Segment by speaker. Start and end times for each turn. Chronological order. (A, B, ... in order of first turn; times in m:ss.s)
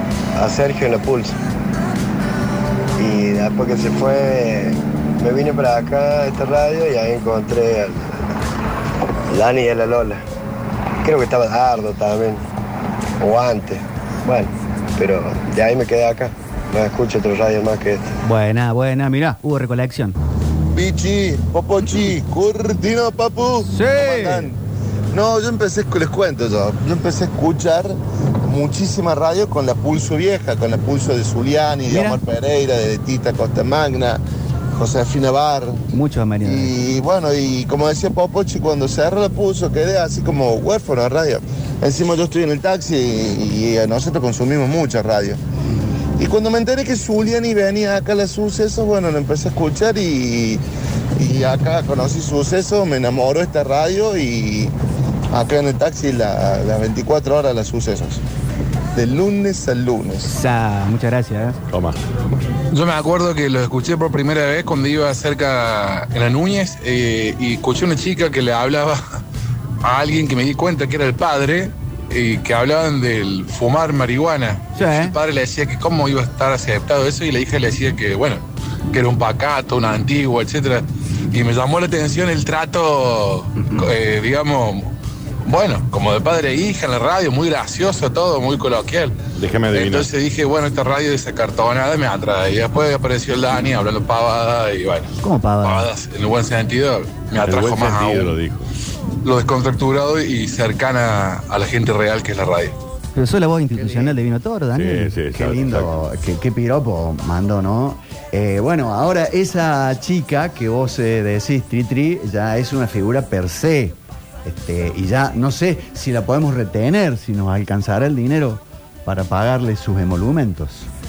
0:00.4-0:01.4 A
0:03.0-0:08.2 A
0:09.3-0:10.2 A
0:11.0-0:12.4 A
0:13.2-0:18.1 A
0:18.2-0:20.2 B
0:20.7-0:24.6 C
0:23.7-0:24.5 B
0:25.1-0:35.8 C
0:31.9-0:32.2 B
0:35.9-0:36.8 B
0:36.4-0:45.4 C
0:46.2-0:50.6 C
0:51.2-0:54.7 C
0:55.3-0:58.2 C
0:59.0-1:00.4 C
1:00.3-1:01.6 B
1:01.7-1:02.0 D
1:02.7-1:09.2 E
1:09.8-1:24.9 E
1:14.8-1:15.2 B
1:25.5-1:29.2 E
1:29.4-1:30.1 D
1:29.7-1:38.4 E
1:35.2-1:35.9 B
1:37.4-1:38.7 D
1:39.2-1:42.8 E
1:43.2-1:45.1 B
1:43.8-1:44.2 F
1:44.7-1:45.9 D
1:45.3-2:00.9 F